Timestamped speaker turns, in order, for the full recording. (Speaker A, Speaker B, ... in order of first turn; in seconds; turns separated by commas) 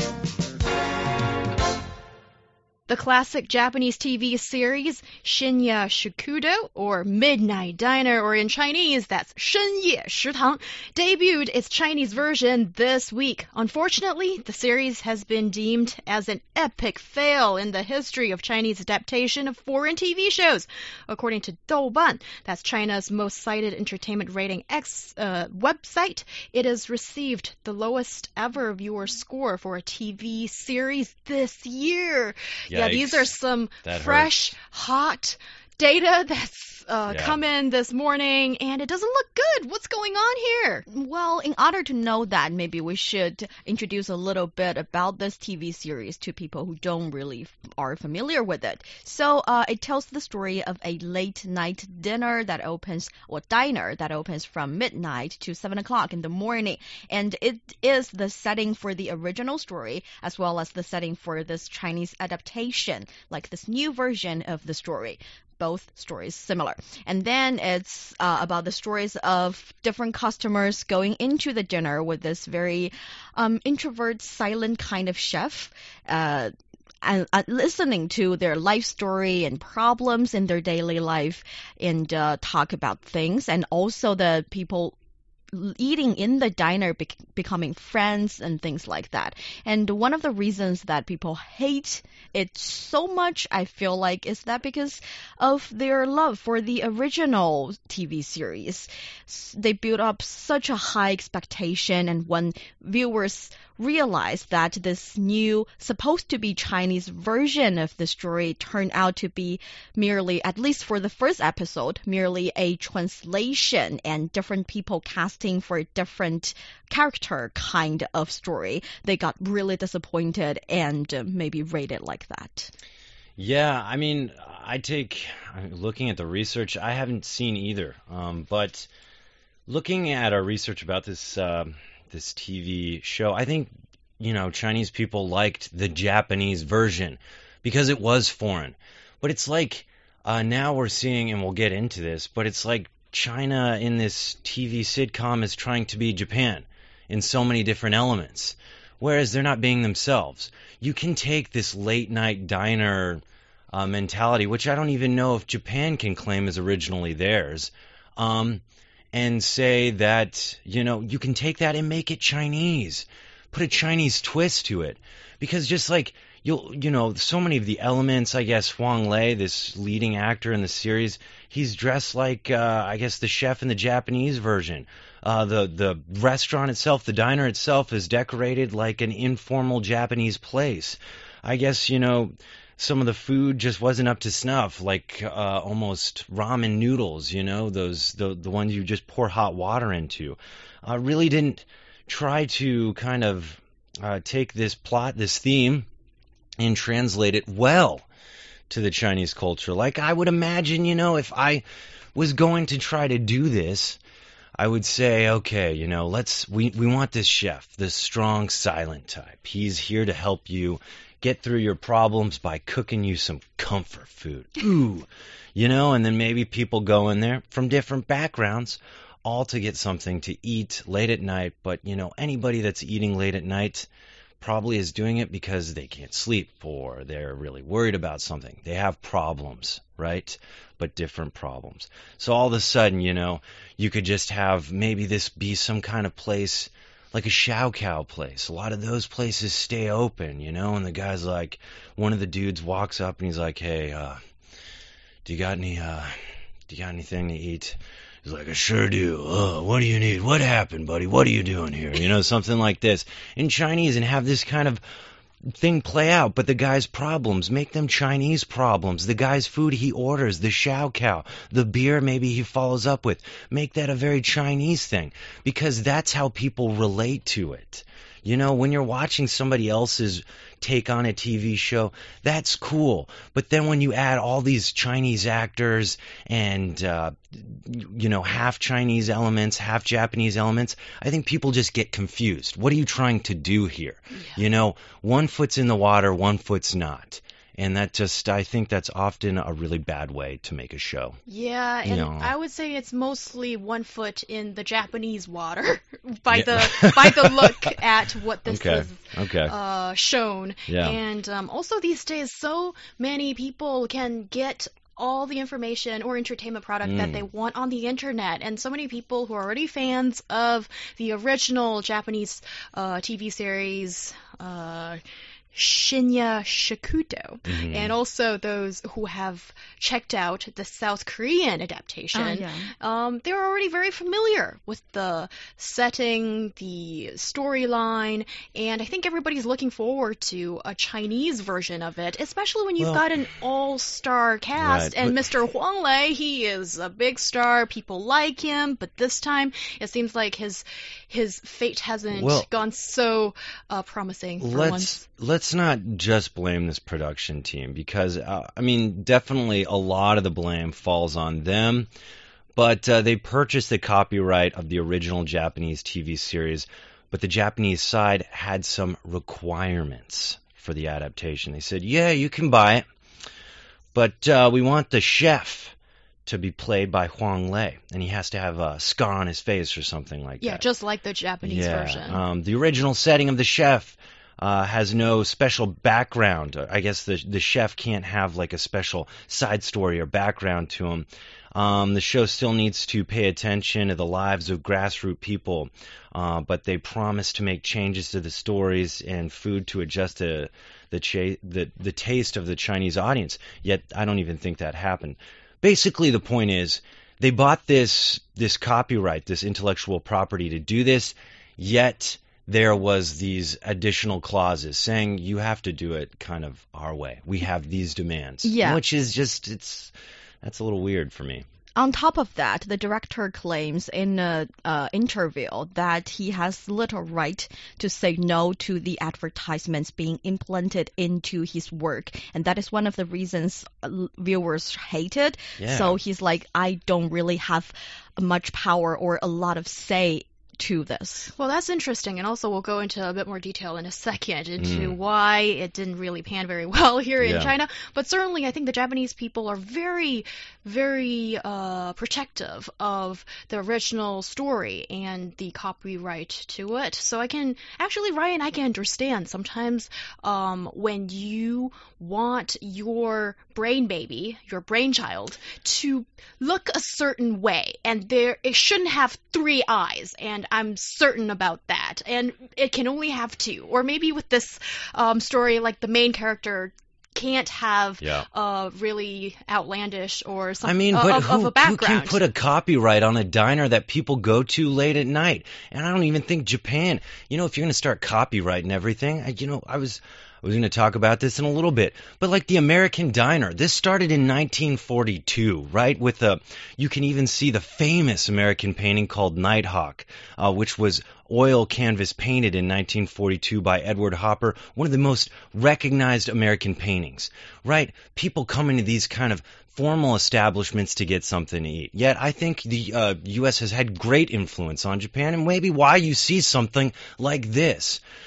Speaker A: 2.9-40.8, Speaker B: 32.7-33.3, Speaker B: 33.8-34.5, Speaker B: 37.1-37.4, Speaker C: 40.9-76.5, Speaker C: 77.0-84.9, Speaker C: 85.5-122.7, Speaker B: 123.4-128.9, Speaker B: 129.7-158.6, Speaker B: 159.1-195.9, Speaker B: 196.6-198.1, Speaker B: 198.7-201.6, Speaker B: 202.1-204.0, Speaker B: 204.6-223.9, Speaker B: 224.4-244.2, Speaker B: 245.2-246.1, Speaker B: 246.7-254.8, Speaker B: 255.4-291.2, Speaker A: 291.3-315.0, Speaker B: 291.8-292.3, Speaker B: 296.3-297.8, Speaker B: 298.5-299.5, Speaker B: 300.7-301.0, Speaker B: 306.8-307.2, Speaker A: 315.5-345.0, Speaker B: 317.4-317.9, Speaker C: 322.1-322.7, Speaker B: 334.6-335.2, Speaker B: 342.1-342.5, Speaker B: 344.4-351.9, Speaker B: 352.6-362.8, Speaker B: 363.9-365.7, Speaker B: 366.2-370.6, Speaker A: 370.4-372.2, Speaker B: 371.4-409.9, Speaker C: 408.4-408.8, Speaker B: 410.4-411.4, Speaker C: 411.8-431.3, Speaker B: 425.6-426.0, Speaker A: 431.3-472.2, Speaker B: 434.6-434.9, Speaker B: 437.2-437.5, Speaker B: 468.0-468.2, Speaker B: 470.6-508.0